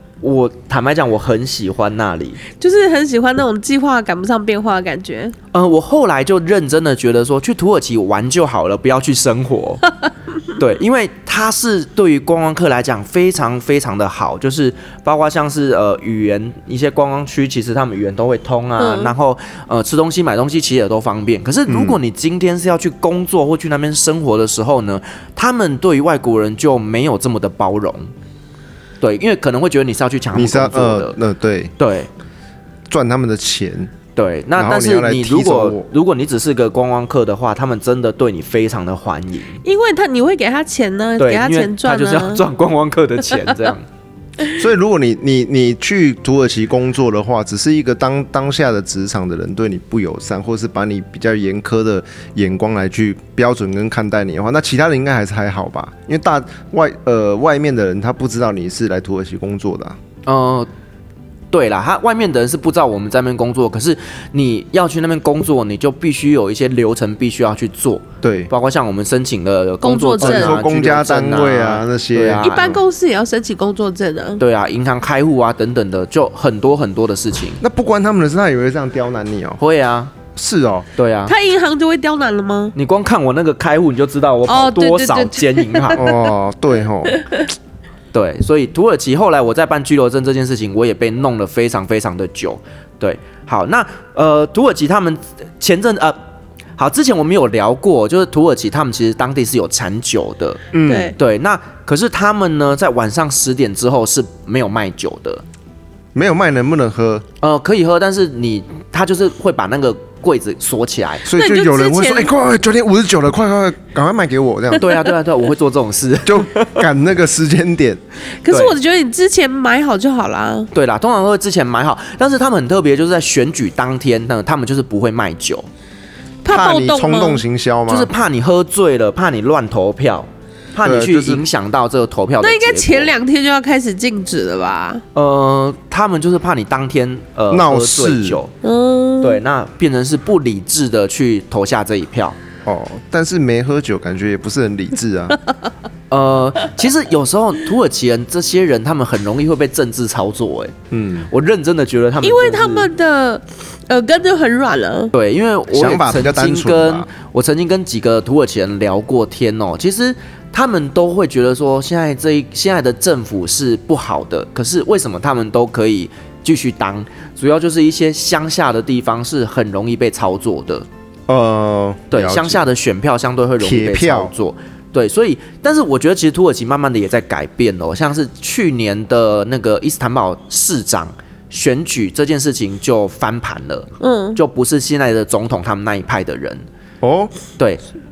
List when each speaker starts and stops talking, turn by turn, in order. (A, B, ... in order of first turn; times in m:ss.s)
0:00.2-0:02.4 A
0:02.6-0:05.3 B
0:05.5-0:09.8 A
0:10.6-0:28.1 A
0:18.8-0:19.1 B
0:21.7-0:22.0 C
0:29.0-0:31.2 A
0:30.3-0:31.7 C
0:31.8-0:32.1 A
0:32.9-0:33.9 C
0:34.1-0:39.6 A
0:34.6-0:35.9 C
0:39.6-0:42.4 B
0:41.2-0:43.8 A
0:44.5-1:00.0 C
1:00.2-1:00.7 A
1:01.5-1:12.7 A
1:08.2-1:08.5 C
1:09.8-1:10.6 B
1:10.2-1:12.8 C
1:12.4-1:14.4 B
1:14.4-1:17.6 A
1:17.6-1:19.6 C
1:19.6-1:20.1 A
1:20.3-1:20.9 C
1:21.0-1:21.3 A
1:21.3-1:22.7 B
1:22.7-1:26.0 A
1:24.5-1:26.3 B
1:25.9-1:27.2 C
1:27.1-1:27.5 B
1:28.1-1:36.2 A
1:36.8-1:40.6 A
1:40.7-1:41.1 C
1:40.9-1:41.2 B
1:41.2-1:45.4 A
1:46.1-1:47.2 C
1:47.4-1:51.2 A
1:51.2-1:54.9 C
1:51.3-1:52.3 B
1:54.8-1:56.8 A
1:56.2-1:58.0 C
1:58.4-2:00.7 B
1:58.5-1:58.8 A
2:00.7-2:05.7 A
2:06.4-2:07.4 B
2:06.5-2:08.1 C
2:07.9-2:13.1 A
2:10.8-2:11.4 C
2:12.4-2:15.0 B
2:15.1-2:18.5 A
2:17.5-2:18.4 C
2:18.6-2:19.4 B
2:19.2-2:22.4 A
2:22.6-2:25.4 C
2:26.1-2:30.7 A
2:30.9-2:31.3 C
2:31.3-2:32.9 A
2:32.2-2:35.1 B
2:35.1-2:50.8 A
2:35.7-2:37.1 C
2:51.3-2:52.6 C
2:52.1-3:06.6 A
2:53.6-2:54.3 C
3:04.0-3:04.4 B
3:07.0-3:07.3 C